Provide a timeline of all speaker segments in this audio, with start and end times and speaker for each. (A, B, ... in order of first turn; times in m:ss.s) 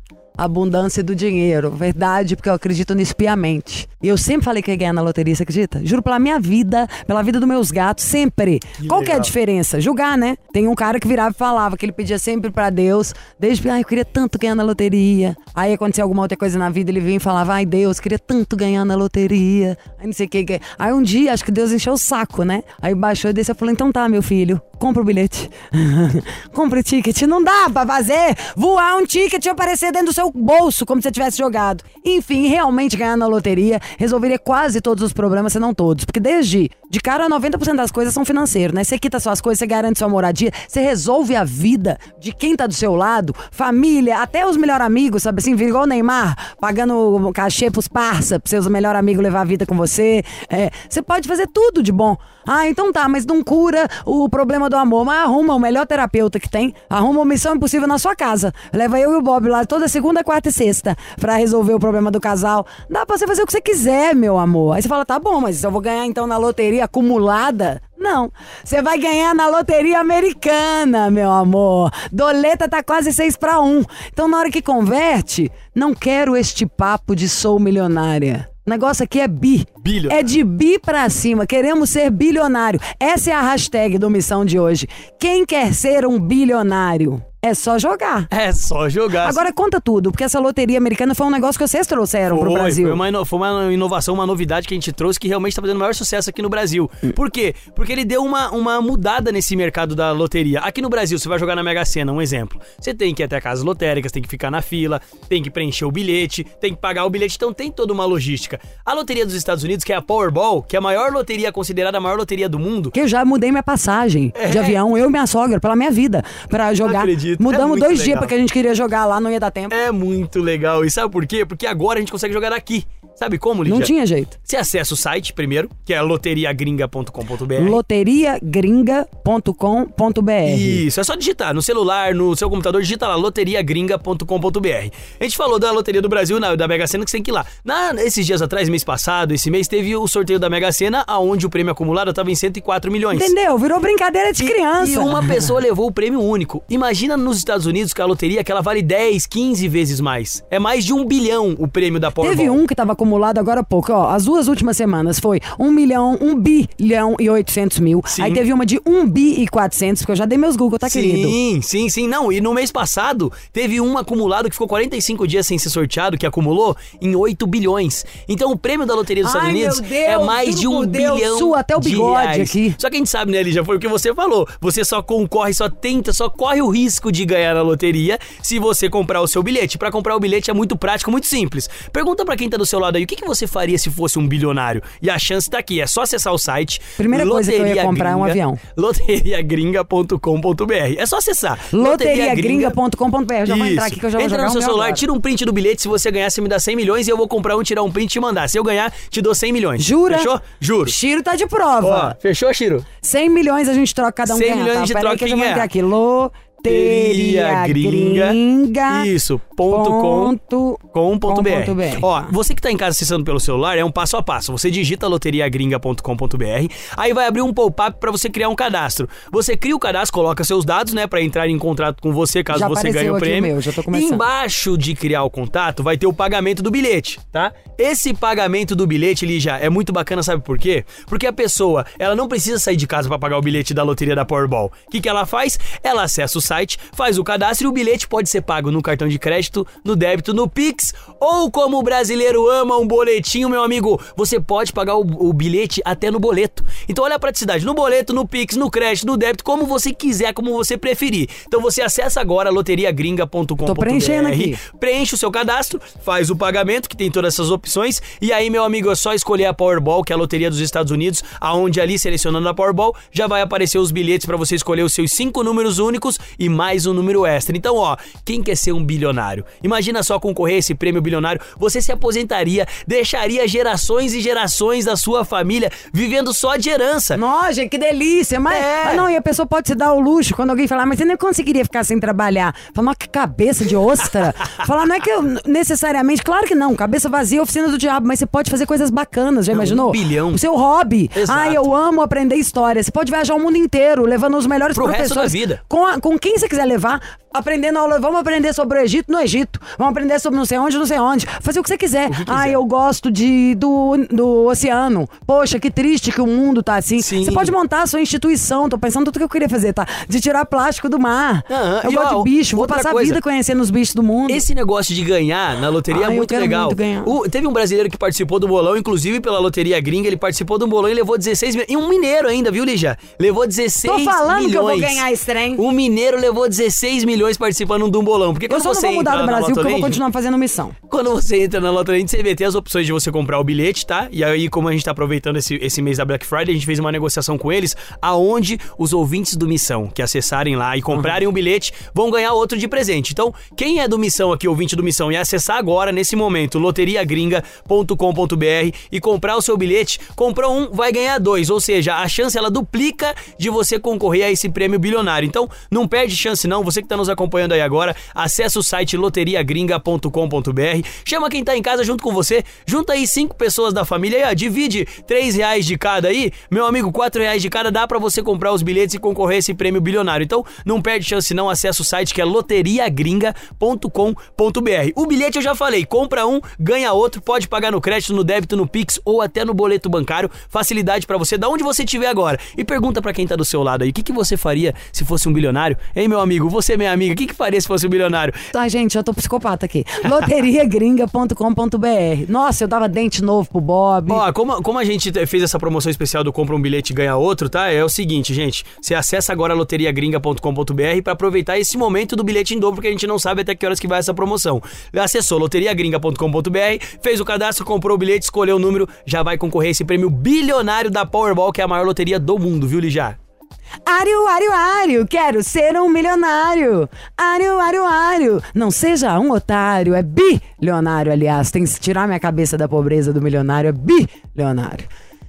0:00.4-1:28.3 A
0:08.8-0:09.3 B
1:19.8-1:20.2 B
1:28.3-1:29.4 B
1:29.2-1:33.0 A
1:32.3-1:52.9 B
1:52.9-1:59.8 A
1:54.4-1:54.8 B
1:56.8-1:58.3 B
1:59.7-2:03.9 B
2:03.6-2:04.3 A
2:04.4-2:07.8 B
2:07.6-2:10.8 A
2:10.4-2:23.3 B
2:23.1-2:25.5 A
2:24.4-2:32.6 B
2:32.2-2:41.4 A
2:38.1-2:38.4 B
2:40.9-3:12.8 B
2:49.2-2:52.8 A
3:07.0-3:08.6 A
3:11.7-3:15.0 A
3:13.5-3:20.9 B
3:19.8-3:20.3 A
3:20.8-3:22.2 A
3:21.8-3:22.9 B
3:23.0-3:29.1 A
3:24.3-3:25.7 B
3:26.7-3:30.4 B
3:29.7-3:32.3 A
3:30.9-4:37.2 B
3:42.5-3:44.2 A
4:13.6-4:14.6 A
4:37.1-5:14.4 A
4:38.5-4:39.1 B
4:49.5-4:50.4 B
4:51.1-4:51.7 B
4:54.8-4:55.6 B
5:02.1-5:02.6 B
5:07.0-5:07.5 B
5:11.5-5:13.2 B
5:14.3-5:25.1 B
5:15.9-5:17.1 A
5:23.8-5:25.6 A
5:25.6-5:30.0 B
5:28.5-5:30.8 A
5:30.9-6:28.4 B
6:28.5-6:34.2 A
6:34.1-6:53.2 B
6:53.9-7:04.9 A